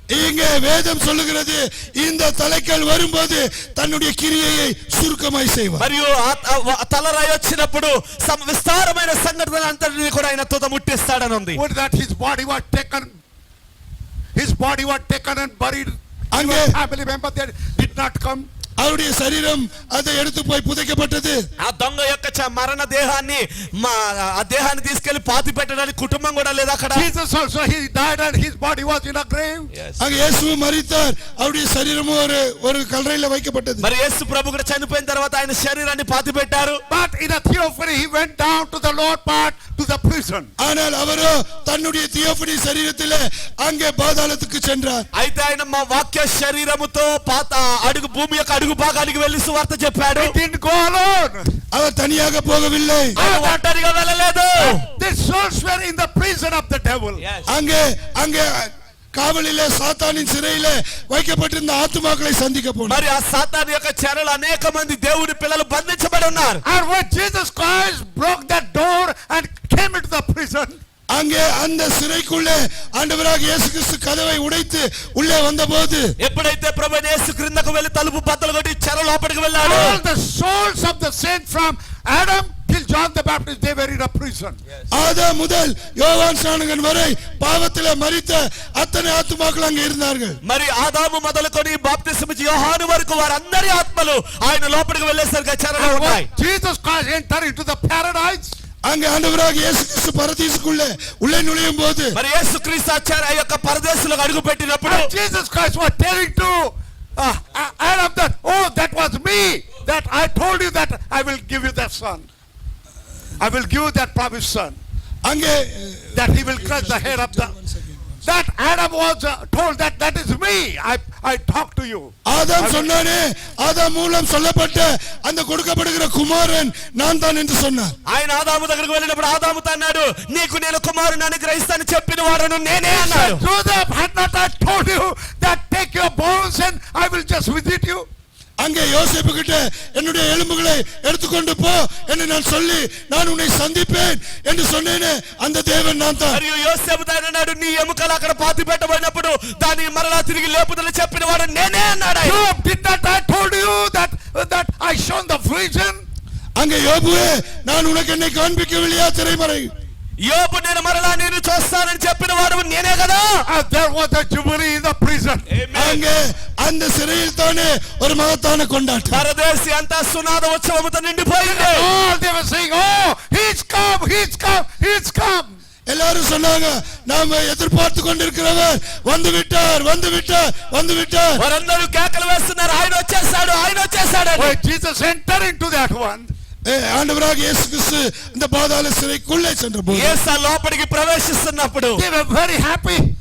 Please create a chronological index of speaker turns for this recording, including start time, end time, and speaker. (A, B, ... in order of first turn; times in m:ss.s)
0:00.1-0:05.8 A
0:05.8-0:11.6 B
0:11.5-0:13.1 C
0:14.3-0:18.4 C
0:16.3-0:16.7 A
0:18.8-0:21.4 A
0:21.6-0:27.1 B
0:26.9-0:29.7 C
0:30.0-0:33.8 A
0:33.8-0:36.8 B
0:36.9-0:40.5 C
0:40.6-0:45.0 A
0:45.1-0:50.3 B
0:50.2-0:51.5 C
0:51.7-0:53.2 A
0:53.2-0:53.6 C
0:53.2-0:54.8 B
0:54.6-0:57.2 C
0:57.5-1:03.0 A
1:02.8-1:06.6 B
1:06.6-1:10.8 C
1:11.1-1:16.1 A
1:16.2-1:20.0 B
1:19.6-1:24.6 C
1:24.9-1:30.4 A
1:30.4-1:36.3 B
1:35.8-1:38.6 C
1:38.8-1:42.2 A
1:42.1-1:45.1 B
1:44.8-1:52.3 C
1:53.4-1:54.8 C
1:55.2-1:58.1 A
1:56.1-1:57.5 C
1:58.2-2:02.9 C
2:02.2-2:07.9 A
2:08.1-2:13.4 B
2:12.9-2:18.0 C
2:18.6-2:26.4 A
2:26.3-2:32.4 B
2:32.2-2:36.0 C
2:36.6-2:39.7 A
2:40.2-2:43.4 B
2:43.4-2:45.5 C
2:45.5-2:46.0 B
2:45.7-2:49.2 A
2:49.1-2:51.9 B
2:51.4-2:55.6 C
2:55.9-3:01.4 A
3:01.4-3:04.6 B
3:04.4-3:06.3 C
3:06.6-3:10.2 A
3:09.9-3:12.0 B
3:12.0-3:13.1 C